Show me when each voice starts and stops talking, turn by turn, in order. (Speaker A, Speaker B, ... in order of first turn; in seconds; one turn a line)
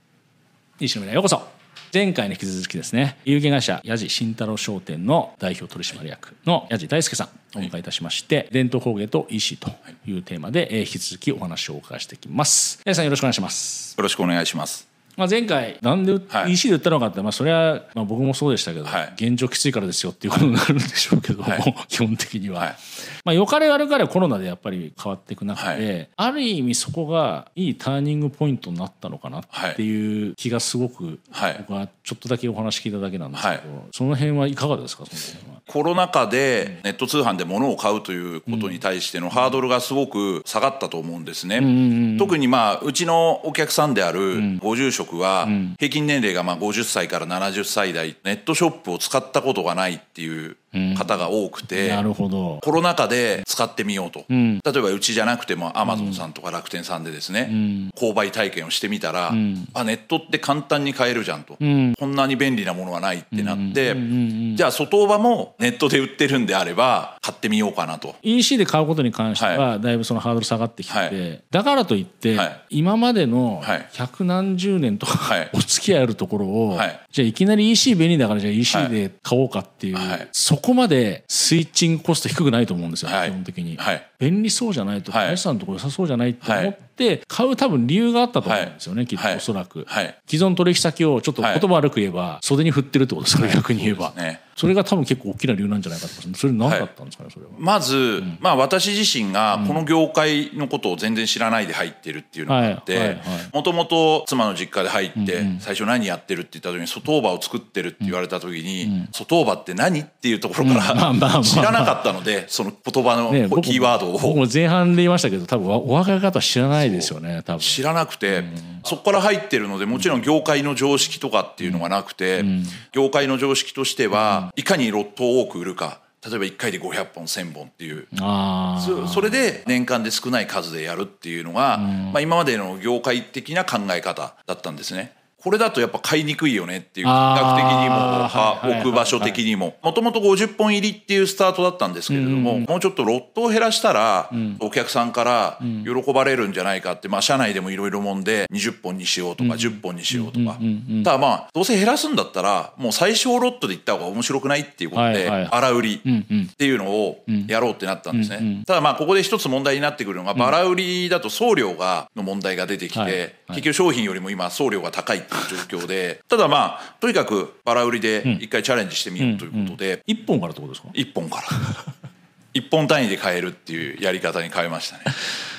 Speaker A: 0.8-14.0
Speaker B: 14.0-14.8
Speaker A: 15.2-35.6
Speaker B: 18.9-19.1
Speaker B: 25.6-25.8
Speaker B: 29.5-29.8
Speaker B: 31.3-31.6
Speaker B: 33.3-33.6
Speaker B: 35.7-52.0
Speaker A: 38.5-38.8
Speaker A: 41.6-42.4
Speaker A: 44.3-44.6
Speaker A: 45.4-45.8
Speaker A: 50.7-51.2
Speaker A: 51.7-52.6
Speaker B: 52.6-68.2
Speaker A: 54.3-54.6
Speaker A: 55.8-56.2
Speaker A: 57.5-57.9
Speaker A: 59.3-59.7
Speaker A: 61.6-62.0
Speaker A: 63.3-64.6
Speaker A: 68.2-97.6
Speaker B: 69.4-69.7
Speaker B: 70.9-71.2
Speaker B: 73.6-73.9
Speaker B: 75.2-75.5
Speaker B: 76.7-77.0
Speaker B: 78.7-79.0
Speaker B: 79.9-80.3
Speaker B: 83.0-84.0
Speaker B: 85.1-85.4
Speaker B: 86.4-86.7
Speaker B: 88.4-90.2
Speaker B: 91.4-91.7
Speaker B: 93.3-94.4
Speaker B: 96.6-96.9
Speaker B: 97.6-114.4
Speaker A: 99.5-99.8
Speaker A: 102.5-103.5
Speaker A: 105.2-105.6
Speaker A: 108.8-109.1
Speaker A: 110.6-112.0
Speaker A: 113.3-118.8
Speaker B: 116.8-128.1
Speaker A: 120.0-120.2
Speaker A: 122.4-122.8
Speaker A: 124.1-124.5
Speaker A: 128.1-129.5
Speaker B: 128.8-156.1
Speaker A: 131.8-132.2
Speaker A: 137.0-139.4
Speaker A: 142.1-142.7
Speaker A: 144.3-144.6
Speaker A: 145.6-145.9
Speaker A: 149.4-151.1
Speaker A: 154.9-156.5
Speaker B: 156.6-170.0
Speaker A: 158.1-158.7
Speaker A: 162.9-163.6
Speaker A: 169.2-170.9
Speaker B: 170.9-171.5
Speaker B: 172.5-175.1